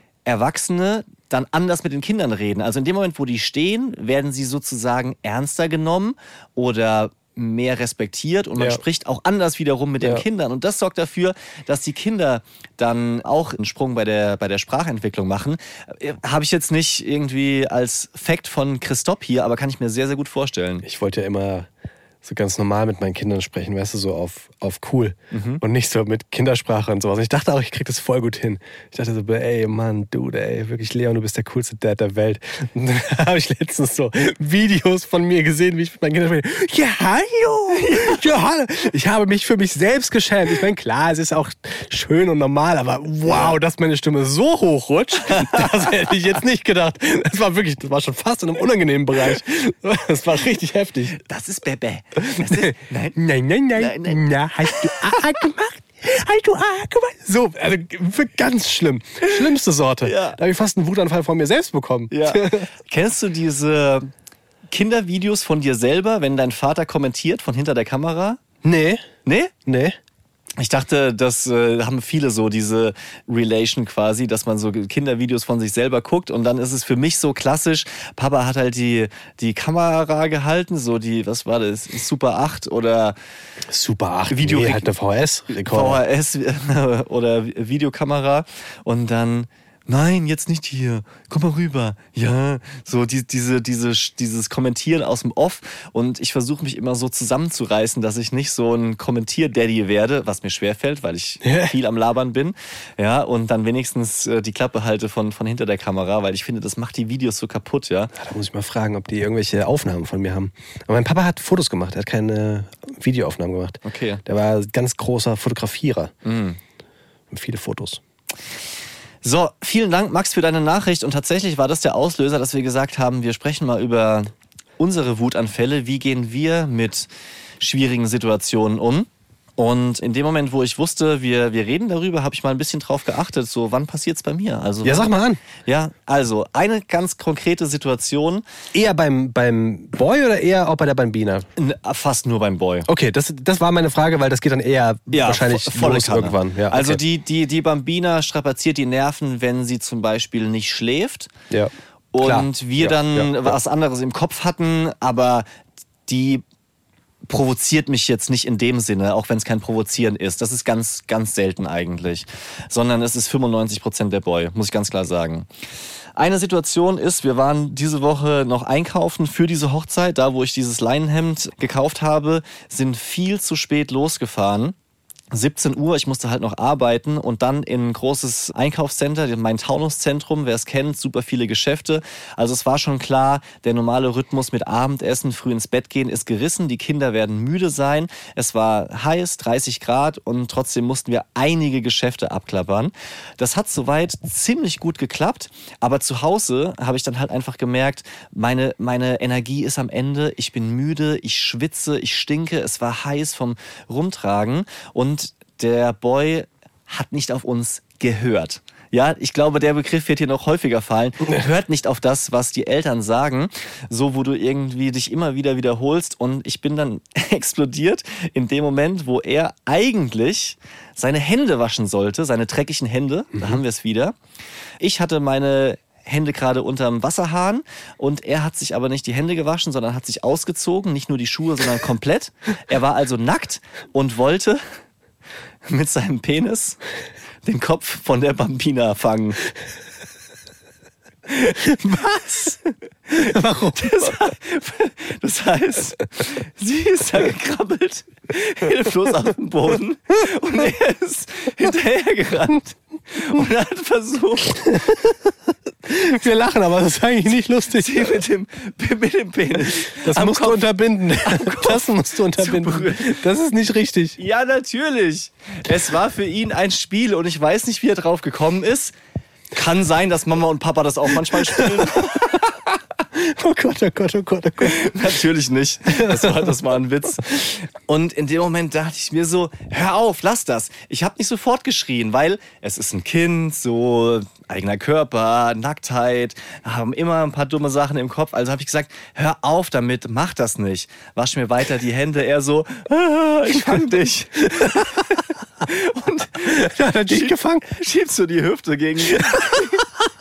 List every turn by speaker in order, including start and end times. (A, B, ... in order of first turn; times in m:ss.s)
0:00.3-0:20.8 A
0:20.8-0:21.7 B
0:22.2-0:51.2 B
0:25.3-0:25.6 A
0:37.8-0:38.2 A
0:43.3-0:43.6 A
0:45.3-0:45.6 A
0:51.2-0:53.2 A
0:52.3-1:02.7 B
0:53.7-0:55.2 A
1:00.0-1:00.4 A
1:02.1-1:04.1 A
1:04.7-1:08.4 A
1:08.6-1:09.0 B
1:09.2-1:09.5 A
1:09.7-1:10.0 B
1:10.6-1:23.2 A
1:23.7-1:26.0 B
1:24.3-1:24.9 A
1:25.7-1:48.1 A
1:41.4-1:41.7 B
1:48.2-1:56.1 B
1:53.8-1:54.2 A
1:56.2-1:56.6 A
1:57.3-1:58.0 B
1:59.2-2:07.1 A
2:07.6-2:18.4 A
2:14.8-2:15.4 B
2:18.7-2:21.5 B
2:21.6-2:22.9 A
2:22.9-2:27.0 B
2:25.1-2:31.3 A
2:31.5-2:33.5 B
2:32.1-2:35.5 A
2:36.1-2:36.4 A
2:37.3-2:45.5 A
2:46.2-2:54.8 A
2:55.3-3:44.2 A
3:44.8-3:54.6 A
3:55.7-3:56.8 A
3:57.4-3:59.4 A
4:01.3-4:15.0 A
4:03.2-4:04.1 B
4:15.8-4:18.2 B
4:17.8-4:23.2 A
4:20.0-4:24.2 B
4:24.2-4:29.0 A
4:29.5-4:32.4 A
4:31.3-4:32.5 B
4:33.1-4:34.9 B
4:34.6-4:59.9 A
4:35.9-4:36.5 B
4:53.6-4:53.8 B
4:54.6-4:55.0 B
4:56.4-4:57.7 B
4:59.2-4:59.7 B